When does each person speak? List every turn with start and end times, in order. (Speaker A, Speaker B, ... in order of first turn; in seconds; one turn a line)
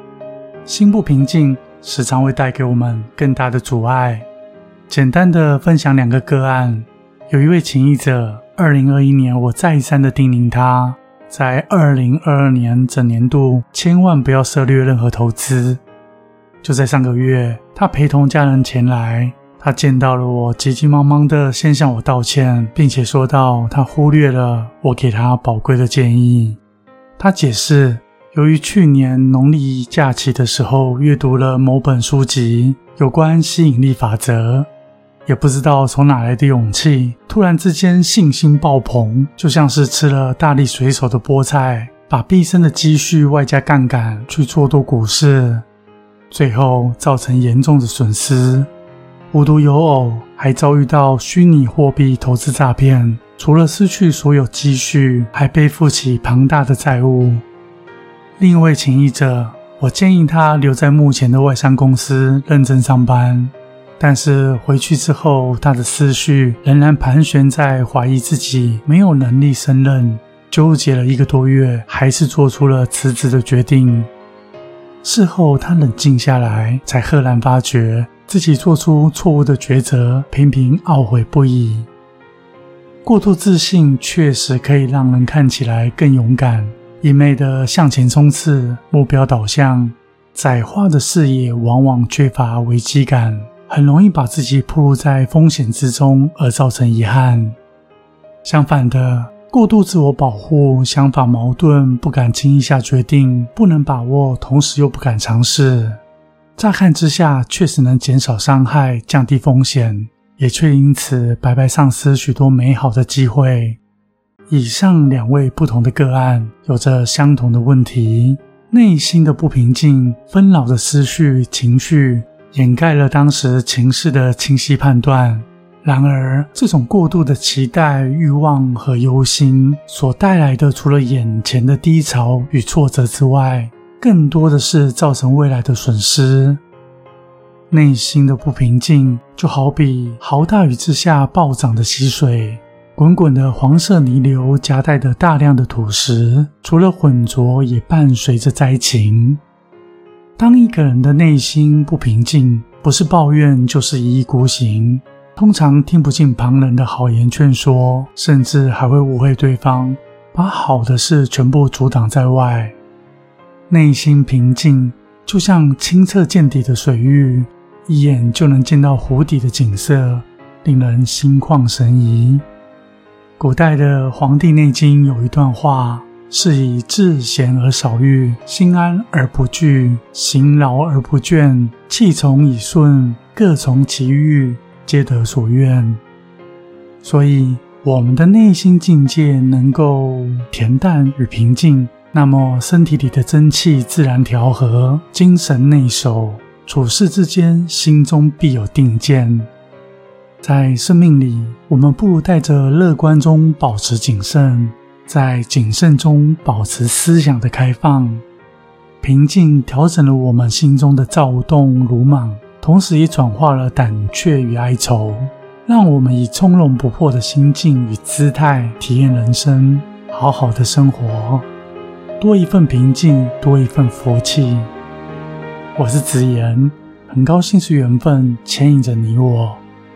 Speaker A: 0.6-4.3
Speaker A: 4.9-15.8
Speaker A: 16.6-26.6
Speaker A: 27.2-34.7
Speaker A: 35.2-45.6
Speaker A: 46.3-48.7
Speaker A: 49.3-57.4
Speaker A: 58.4-74.1
Speaker A: 75.0-81.9
Speaker A: 83.0-97.5
Speaker A: 98.4-106.0
Speaker A: 106.6-113.8
Speaker A: 114.5-136.6
Speaker A: 137.7-149.4
Speaker A: 150.4-162.8
Speaker A: 163.7-172.4
Speaker A: 173.4-186.0
Speaker A: 187.0-199.5
Speaker A: 200.4-208.2
Speaker A: 209.0-221.4
Speaker A: 222.2-224.7
Speaker A: 225.8-229.6